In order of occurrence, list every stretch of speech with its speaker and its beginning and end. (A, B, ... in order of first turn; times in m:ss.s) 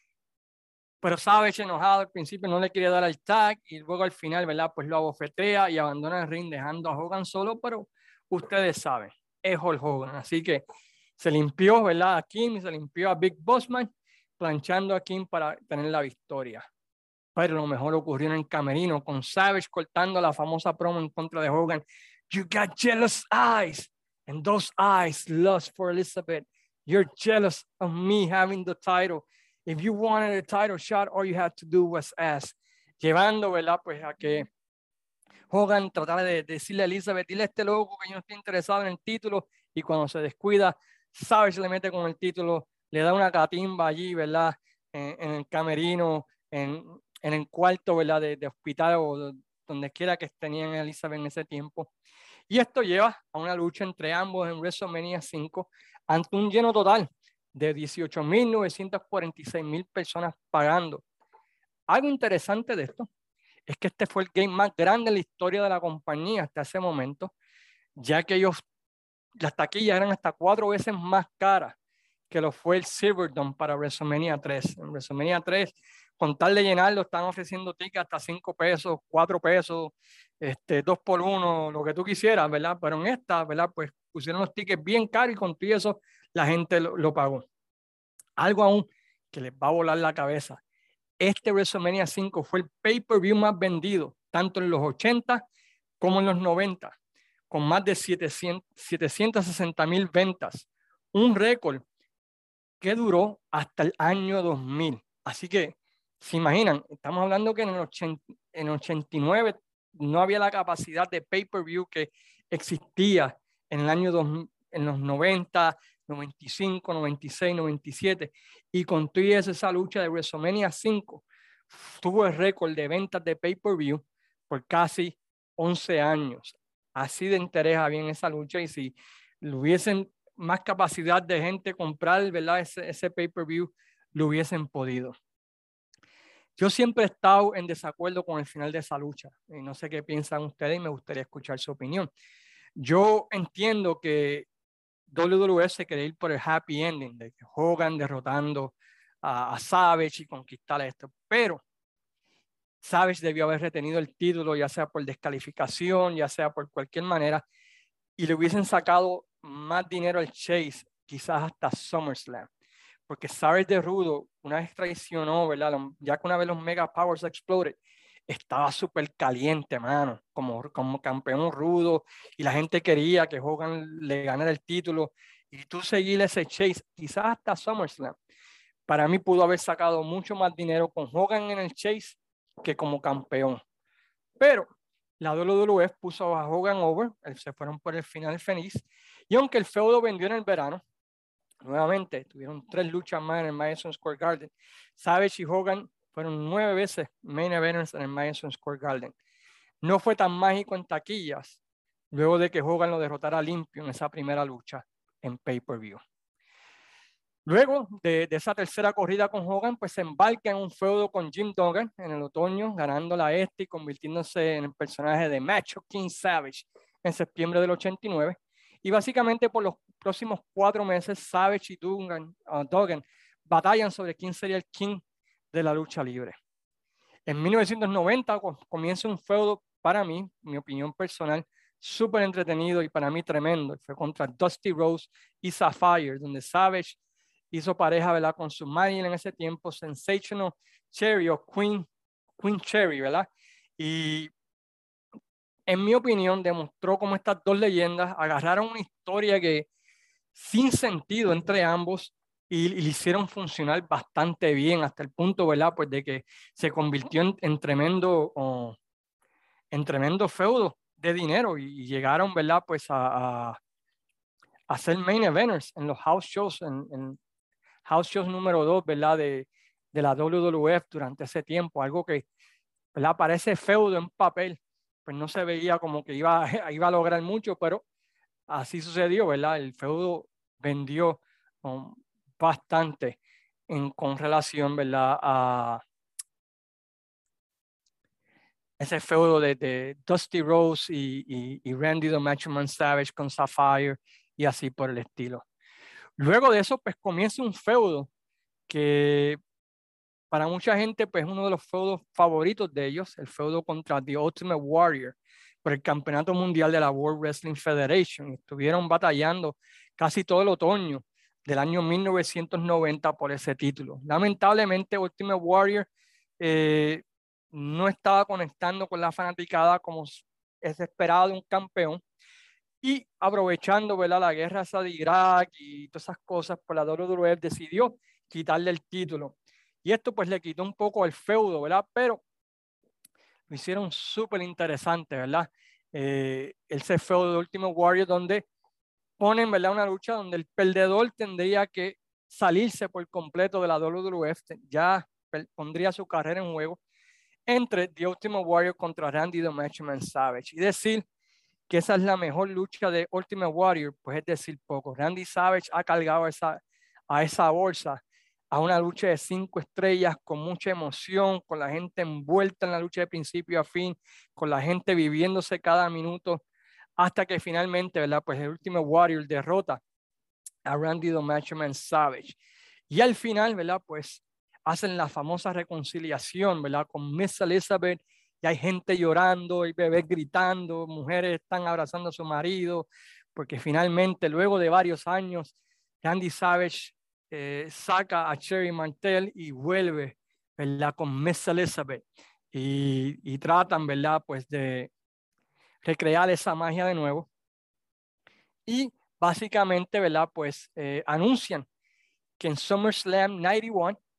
0:01.0-0:10.6 A
0:11.2-0:16.7 A
0:17.4-0:34.5 A
0:35.5-0:51.9 A
0:52.5-1:01.0 A
1:01.9-1:03.1 A
1:03.7-1:07.3 A
1:08.0-1:08.6 A
1:09.4-1:11.8 A
1:12.3-1:27.5 A
1:28.4-1:30.6 A
1:31.2-1:35.5 A
1:36.0-1:37.0 A
1:37.5-1:41.8 A
1:42.8-2:15.1 A
2:16.6-2:22.1 A
2:22.8-2:24.5 A
2:25.1-2:31.6 A
2:32.8-2:37.4 A
2:38.2-2:42.5 A
2:43.1-2:47.8 A
2:48.3-2:58.2 A
2:58.9-3:03.6 A
3:04.4-3:10.8 A
3:11.6-3:19.2 A
3:19.8-3:21.6 A
3:22.1-3:26.0 A
3:27.5-3:46.4 A
3:47.3-3:57.0 A
3:57.5-4:01.9 A
4:02.4-4:03.3 A
4:03.8-4:04.3 A
4:05.7-4:09.7 A
4:10.3-4:18.8 A
4:19.7-4:23.6 A
4:24.7-4:27.2 A
4:27.8-4:32.3 A
4:32.9-4:37.8 A
4:38.5-4:45.8 A
4:48.8-4:55.4 A
4:56.2-4:58.1 A
4:58.7-4:59.4 A
5:00.3-5:15.9 A
5:16.4-5:22.0 A
5:22.8-5:32.2 A
5:33.5-5:38.5 A
5:39.2-5:46.8 A
5:47.5-5:51.0 A
5:51.7-5:58.0 A
5:58.5-6:06.4 A
6:07.0-6:09.8 A
6:10.7-6:12.4 A
6:12.9-6:34.9 A
6:35.8-6:37.3 A
6:38.7-6:41.7 A
6:42.4-6:44.0 A